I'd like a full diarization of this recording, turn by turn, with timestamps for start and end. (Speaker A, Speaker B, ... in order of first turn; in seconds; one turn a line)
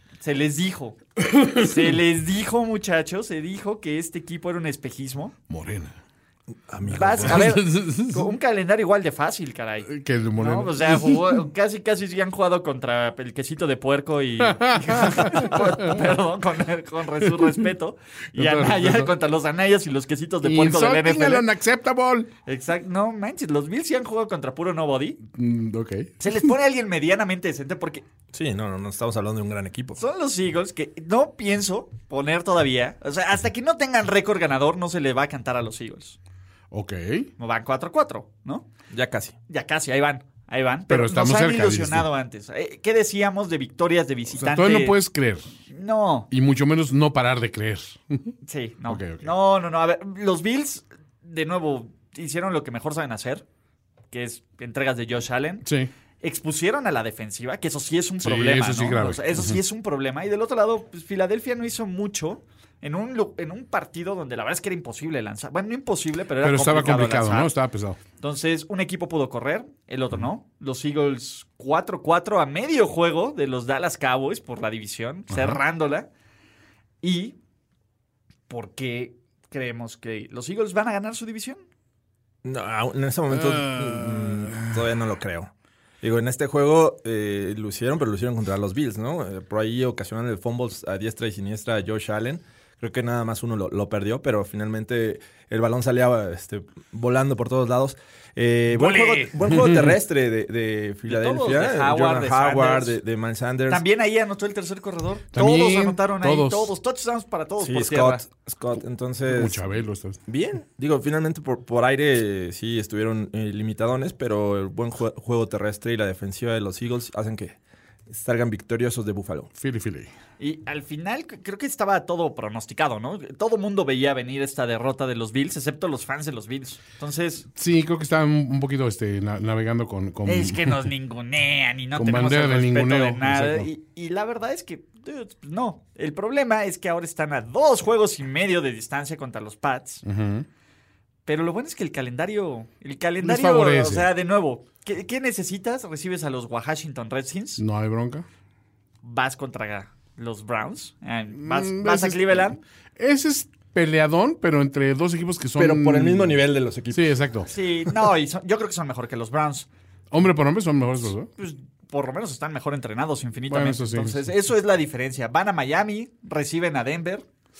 Speaker A: 0.2-1.0
Speaker B: 1.2-1.8
Speaker A: 1.5-5.3
Speaker B: 5.5-6.0
Speaker C: 6.7-7.6
Speaker A: 6.9-21.5
Speaker B: 7.2-8.3
Speaker B: 9.9-11.5
Speaker B: 14.4-16.1
Speaker B: 17.2-17.6
Speaker B: 18.3-19.1
Speaker B: 20.4-22.3
Speaker A: 22.5-25.2
Speaker B: 25.3-26.3
Speaker A: 26.2-28.1
Speaker C: 28.3-30.0
Speaker A: 30.0-36.2
Speaker B: 36.7-37.3
Speaker A: 37.4-38.7
Speaker C: 38.9-39.4
Speaker A: 39.5-45.0
Speaker B: 40.9-42.1
Speaker B: 44.4-45.5
Speaker A: 45.7-46.3
Speaker B: 46.3-48.3
Speaker A: 48.4-53.4
Speaker B: 48.9-49.3
Speaker A: 54.1-55.6
Speaker B: 55.6-55.9
Speaker A: 56.2-67.5
Speaker B: 58.2-59.6
Speaker B: 66.4-68.0
Speaker A: 68.2-76.1
Speaker B: 75.3-75.6
Speaker A: 77.0-77.4
Speaker A: 78.5-81.6
Speaker C: 82.5-103.8
Speaker B: 83.3-84.8
Speaker B: 98.7-100.0
Speaker A: 101.1-103.0
Speaker A: 103.7-108.2
Speaker B: 105.3-106.7
Speaker C: 107.6-109.6
Speaker B: 109.3-110.2
Speaker C: 110.3-117.6
Speaker C: 118.1-119.5
Speaker B: 119.5-120.1
Speaker A: 120.4-127.5
Speaker B: 127.5-130.9
Speaker A: 130.2-140.0
Speaker B: 132.0-133.7
Speaker B: 140.0-140.5
Speaker A: 141.3-147.6
Speaker B: 143.2-144.1
Speaker B: 147.6-148.2
Speaker A: 149.0-152.6
Speaker B: 151.3-157.5
Speaker C: 155.6-157.1
Speaker A: 157.5-159.7
Speaker B: 160.1-161.3
Speaker A: 161.4-167.2
Speaker B: 163.5-164.2